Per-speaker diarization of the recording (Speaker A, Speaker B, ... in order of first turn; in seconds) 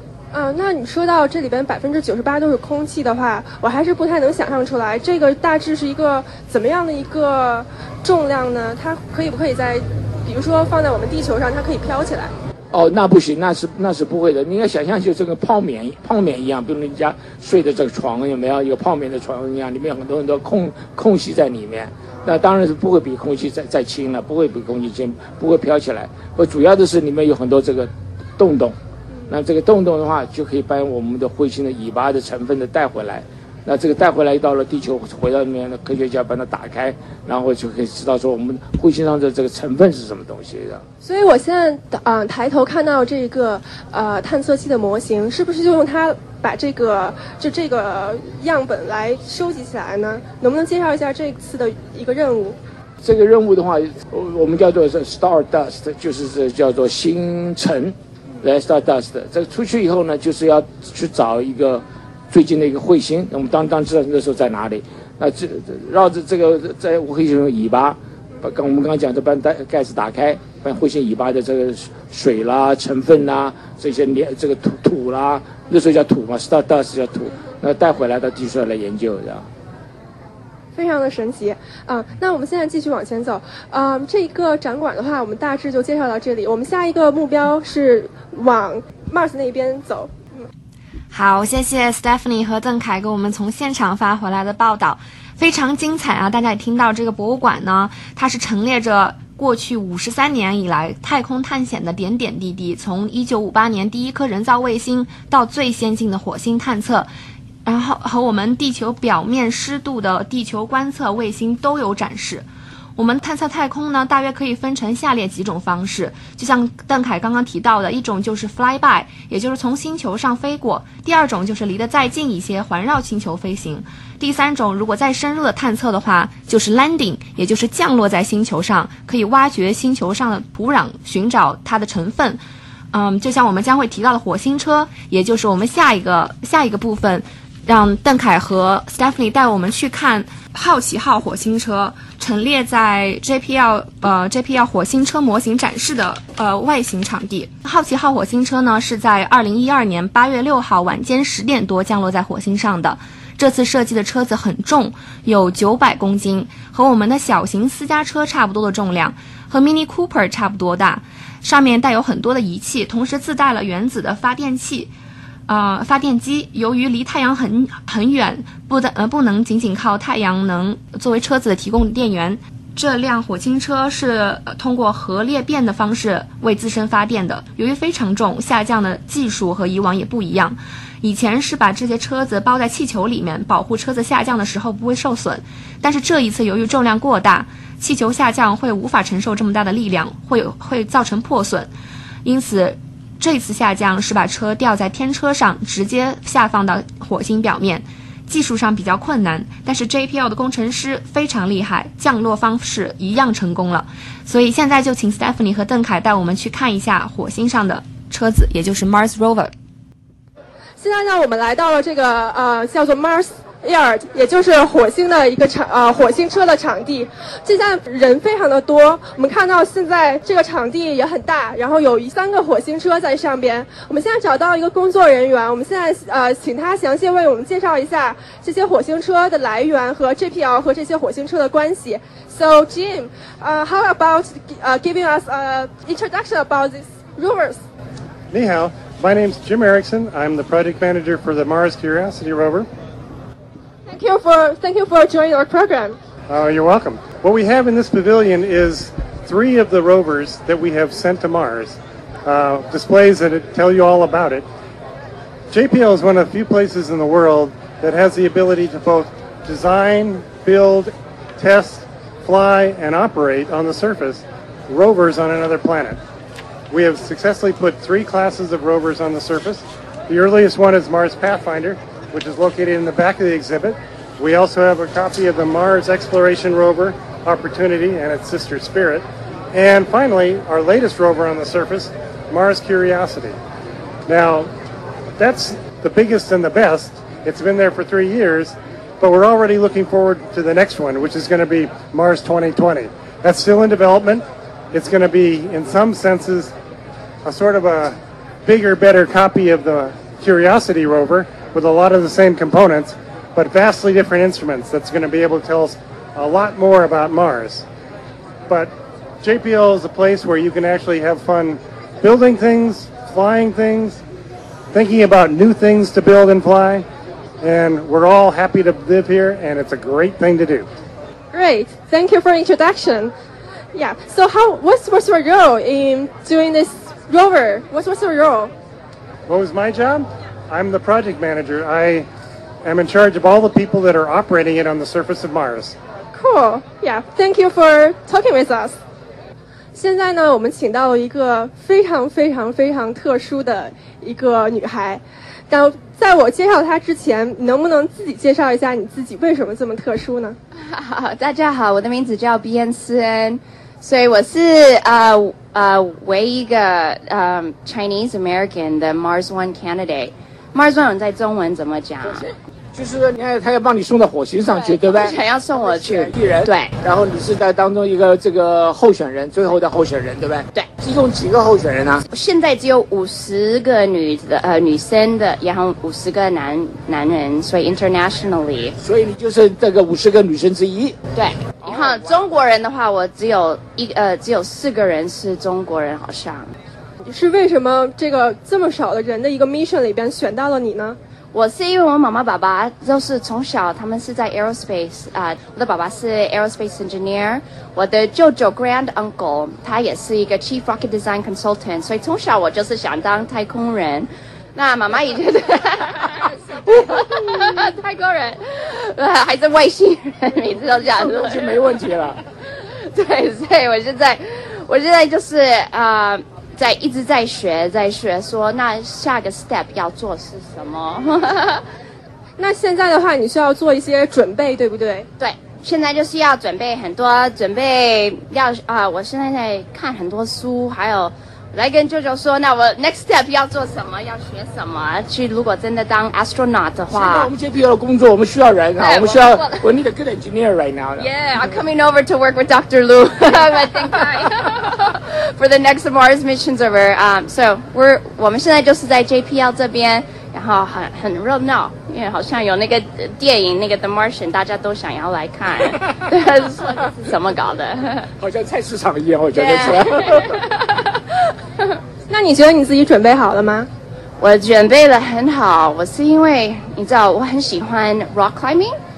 Speaker A: 0.3-12.3, 41.0-52.5, 80.8-90.5, 210.8-237.6, 243.9-246.0, 321.3-323.1, 323.7-328.5, 336.1-338.8, 339.7-350.4, 387.0-391.0, 422.4-425.1, 462.1-463.7
Speaker B: 12.7-28.8, 29.3-40.8, 53.0-79.5, 362.0-372.0, 378.8-381.0, 381.6-382.3, 410.9-412.2, 436.9-441.1, 458.2-460.5
Speaker C: 91.1-107.1, 107.6-112.4, 113.0-132.4, 132.9-164.9, 165.5-191.7, 192.2-209.5
Speaker D: 238.3-242.7, 246.3-254.4, 255.5-266.0, 266.7-283.4, 284.1-284.5, 285.2-296.5, 297.2-307.6, 309.2-314.0, 314.7-316.9, 317.4-320.7, 329.3-332.1, 332.6-335.7
Speaker E: 350.6-362.2, 364.5-366.7, 372.1-378.8, 381.1-386.5, 391.3-411.4, 412.5-421.6, 425.2-437.3, 438.8-439.6, 441.0-458.1, 459.3-460.6, 464.2-468.7